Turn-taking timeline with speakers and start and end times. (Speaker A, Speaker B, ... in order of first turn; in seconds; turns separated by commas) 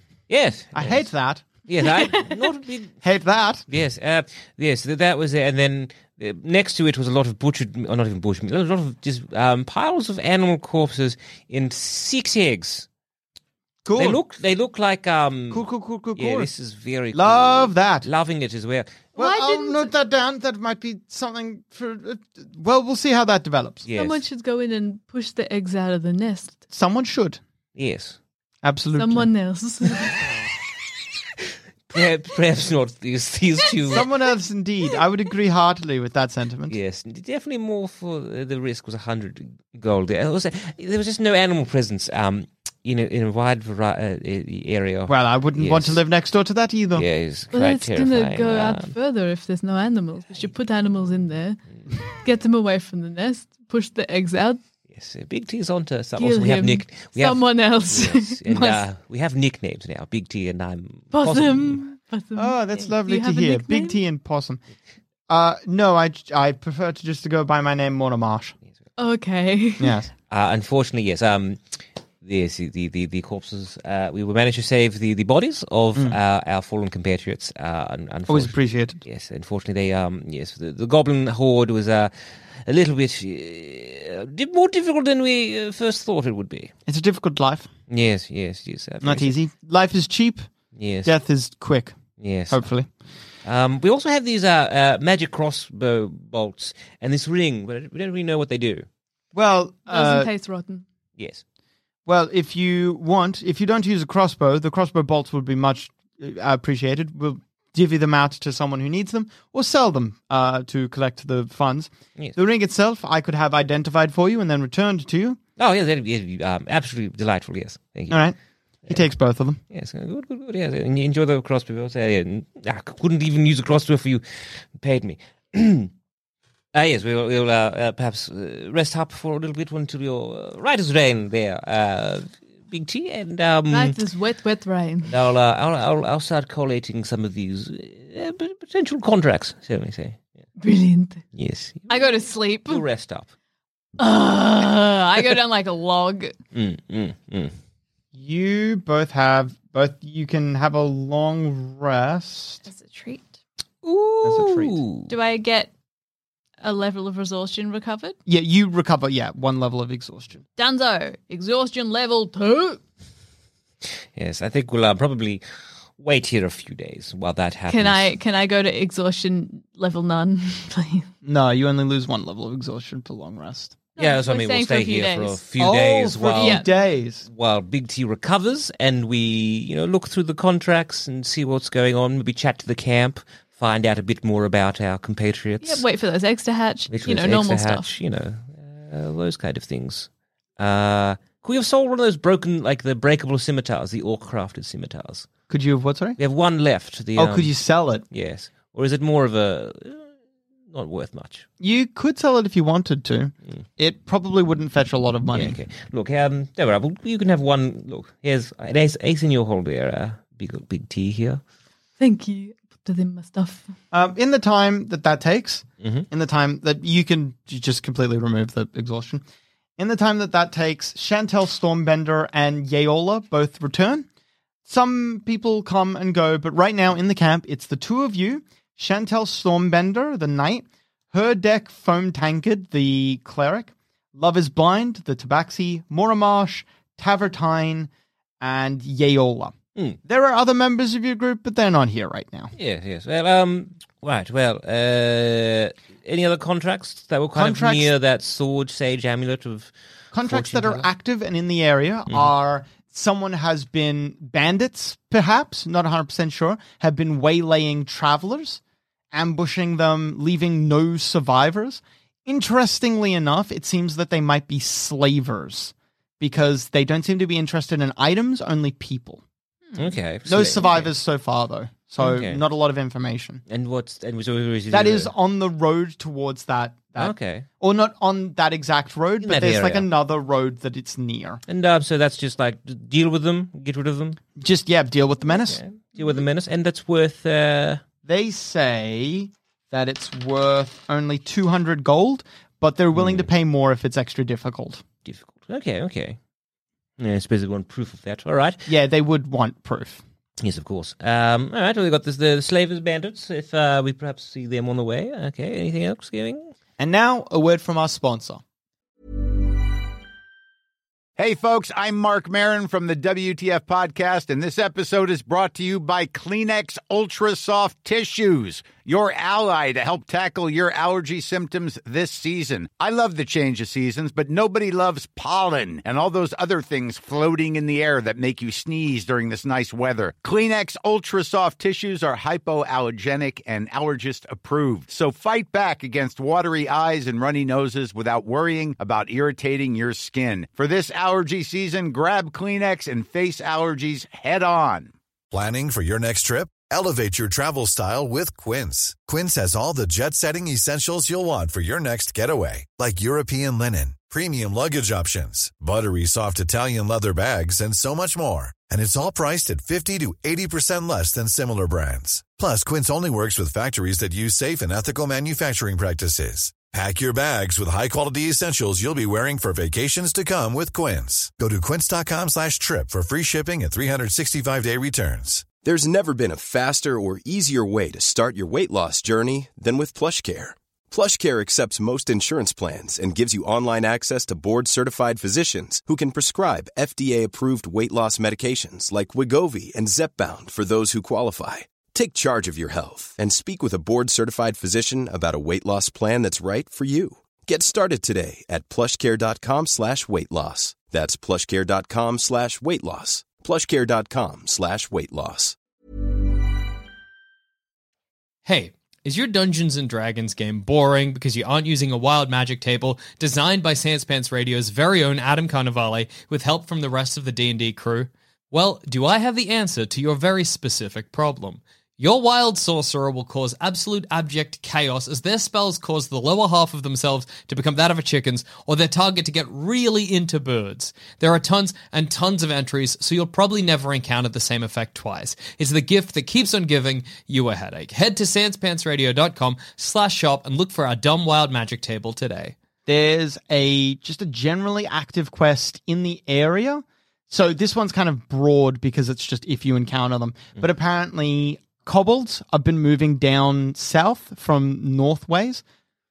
Speaker A: 0.3-1.1, Speaker B: 0.7-1.4, Speaker A: 1.6-3.0, Speaker B: 3.0-3.6, Speaker A: 3.7-12.9, Speaker B: 13.8-14.2, Speaker A: 13.9-19.0, Speaker B: 15.5-16.5, Speaker B: 17.1-18.1, Speaker B: 19.1-23.8, Speaker C: 19.2-19.9, Speaker A: 23.8-24.2, Speaker C: 23.9-26.6, Speaker B: 26.7-27.4, Speaker A: 27.8-28.2, Speaker B: 28.6-29.3, Speaker C: 29.0-30.2, Speaker A: 31.9-34.0, Speaker B: 33.9-36.8, Speaker A: 36.7-46.0, Speaker B: 45.1-47.0, Speaker A: 47.0-48.9, Speaker C: 47.5-54.6, Speaker A: 54.9-61.8, Speaker C: 56.2-58.8, Speaker C: 61.1-64.0, Speaker B: 62.4-64.6, Speaker B: 65.3-68.5, Speaker C: 69.0-70.0, Speaker B: 69.8-70.1, Speaker A: 70.3-82.1, Speaker B: 78.3-79.0, Speaker A: 82.6-86.7, Speaker B: 86.9-87.7, Speaker A: 87.9-89.4, Speaker B: 89.0-90.5, Speaker A: 90.7-91.1, Speaker B: 91.0-92.0, Speaker A: 92.2-92.6, Speaker B: 92.5-92.9, Speaker A: 93.4-98.8, Speaker B: 99.3-100.3, Speaker C: 99.9-100.8, Speaker A: 101.2-101.4, Speaker B: 102.1-115.4, Speaker A: 115.6-118.2, Speaker B: 118.1-118.3, Speaker B: 118.9-119.6, Speaker A: 119.7-125.9, Speaker A: 126.7-133.9, Speaker C: 133.7-135.1, Speaker A: 135.1-140.2, Speaker C: 140.6-141.2, Speaker A: 141.3-142.1, Speaker C: 141.9-142.8, Speaker A: 142.6-143.3, Speaker C: 144.0-146.3, Speaker A: 146.5-147.5, Speaker B: 148.1-152.6, Speaker C: 152.7-153.3, Speaker A: 153.8-155.1, Speaker B: 154.2-154.8, Speaker C: 155.1-155.7, Speaker C: 156.6-158.2, Speaker B: 158.3-160.4, Speaker C: 160.6-162.8, Speaker A: 164.1-165.4, Speaker A: 166.0-168.1, Speaker C: 167.7-171.1, Speaker B: 171.2-173.8, Speaker C: 174.0-175.4, Speaker A: 174.0-176.6, Speaker B: 175.6-177.2, Speaker C: 176.4-176.7, Speaker A: 177.2-185.8, Speaker C: 185.6-187.9, Speaker A: 186.9-195.3, Speaker B: 195.5-196.2, Speaker A: 196.2-197.5, Speaker B: 197.2-198.0, Speaker A: 198.1-200.1, Speaker A: 200.7-201.4, Speaker B: 201.6-205.6, Speaker A: 205.3-211.4, Speaker C: 212.0-213.7, Speaker B: 213.9-219.2, Speaker A: 215.8-216.1, Speaker B: 219.8-224.1, Speaker B: 224.7-237.9, Speaker B: 238.4-239.5, Speaker B: 240.1-242.5, Speaker A: 242.5-249.7, Speaker B: 247.3-247.9, Speaker B: 250.1-258.6, Speaker A: 250.2-250.9, Speaker B: 259.1-269.2, Speaker A: 269.8-270.9, Speaker B: 270.2-273.4, Speaker A: 272.0-272.4, Speaker A: 273.5-275.1, Speaker B: 274.7-281.4, Speaker A: 277.0-277.4, Speaker A: 279.2-279.9, Speaker A: 281.5-284.2, Speaker B: 284.4-285.6, Speaker A: 285.3-287.8, Speaker B: 288.0-294.8, Speaker A: 292.9-293.3, Speaker A: 295.0-296.2, Speaker A: 297.0-298.7, Speaker B: 298.7-300.0, Speaker A: 300.4-306.5, Speaker B: 306.8-308.4, Speaker D: 311.2-344.9, Speaker E: 345.3-375.4, Speaker F: 375.6-405.6, Speaker G: 408.4-442.5, Speaker B: 442.9-455.6